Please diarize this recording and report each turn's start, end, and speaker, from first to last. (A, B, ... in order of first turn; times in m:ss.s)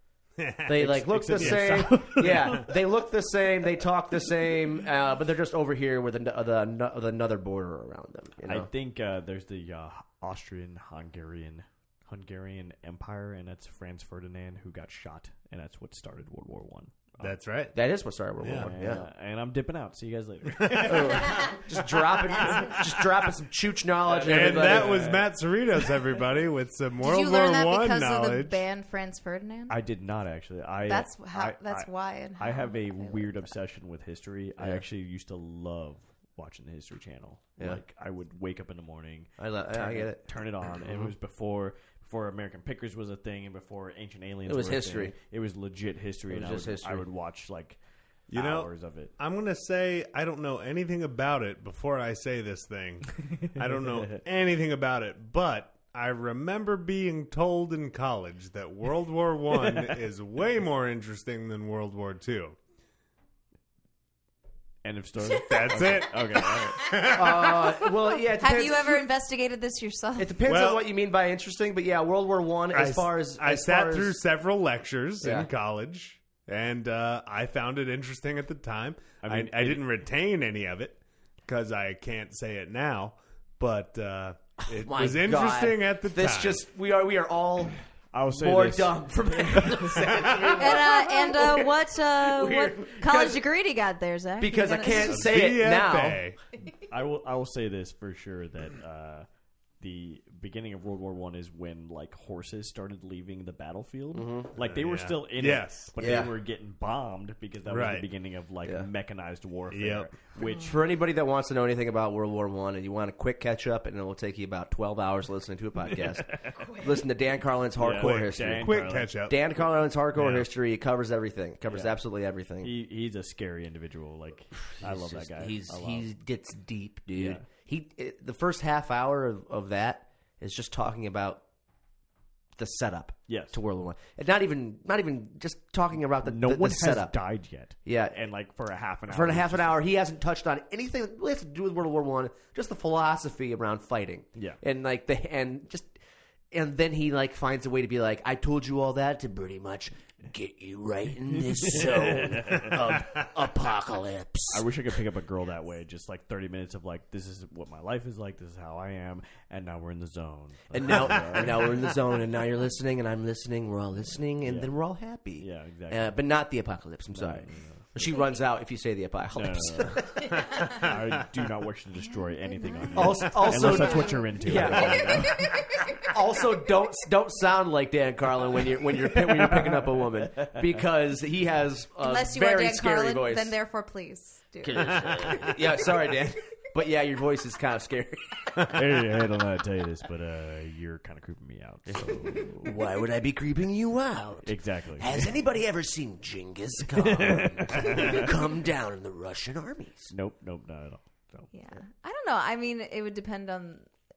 0:00.4-0:00.7 A
0:00.6-0:08.7 B
0:00.7-0:02.8 C
0:01.4-0:02.6 A
0:08.4-0:17.4 C
0:17.2-0:17.7 A
0:17.7-0:19.0 B
0:18.4-0:18.7 A
0:18.5-0:21.5 C
0:20.4-0:21.4 A
0:20.8-0:25.1 B
0:22.0-0:23.0 A
0:24.1-0:25.3 C
0:24.2-0:28.6 A
0:27.0-0:29.8 D
0:29.7-0:47.8 C
0:30.9-0:33.5 D
0:39.4-0:40.2 B
0:40.8-0:41.1 B
0:44.4-0:45.1 B
0:46.3-0:47.0 B
0:48.3-0:49.1 C
0:48.3-1:02.6 A
0:59.6-0:59.9 C
1:04.8-1:06.9 C
1:05.4-1:06.2 A
1:06.5-1:07.5 D
1:06.8-1:07.9 A
1:07.1-1:09.0 B
1:08.4-1:10.4 D
1:10.2-1:14.2 B
1:10.5-1:10.8 A
1:12.7-1:26.6 A
1:15.2-1:15.5 B
1:19.2-1:19.8 C
1:24.6-1:27.7 B
1:28.1-1:30.3 C
1:28.3-1:33.4 B
1:30.0-1:30.8 A
1:30.6-1:35.2 D
1:34.4-1:36.2 B
1:34.9-1:36.4 A
1:36.9-1:39.3 C
1:39.8-1:50.7 C
1:44.1-1:44.5 B
1:44.6-1:45.9 A
1:46.0-1:46.3 B
1:47.6-1:48.0 A
1:49.7-1:50.1 A
1:50.4-2:02.7 B
1:56.5-1:57.0 D
1:57.8-1:59.1 C
1:57.9-1:59.4 A
2:00.2-2:00.5 A
2:01.7-2:02.0 C
2:02.6-2:06.1 C
2:04.8-2:11.4 B
2:07.1-2:07.4 C
2:12.6-2:17.1 B
2:13.3-2:13.6 C
2:16.2-2:19.8 C
2:17.8-2:18.2 B
2:19.1-2:25.9 B
2:26.5-2:34.7 B
2:31.5-2:32.8 C
2:34.5-2:41.9 C
2:40.7-2:50.3 B
2:44.4-2:44.7 C
2:45.4-2:46.2 C
2:47.1-2:47.8 C
2:48.0-2:48.3 D
2:49.3-2:50.0 C
2:50.5-2:50.9 A
2:50.7-2:55.5 C
2:52.4-2:56.1 D
2:52.9-2:55.4 B
2:56.0-3:03.5 B
2:59.0-3:00.7 C
3:02.0-3:05.4 D
3:04.6-3:08.7 B
3:04.8-3:05.5 A
3:08.7-3:12.8 C
3:11.9-3:20.1 B
3:14.4-3:15.3 C
3:16.9-3:18.3 C
3:20.1-3:21.5 C
3:21.5-3:23.9 D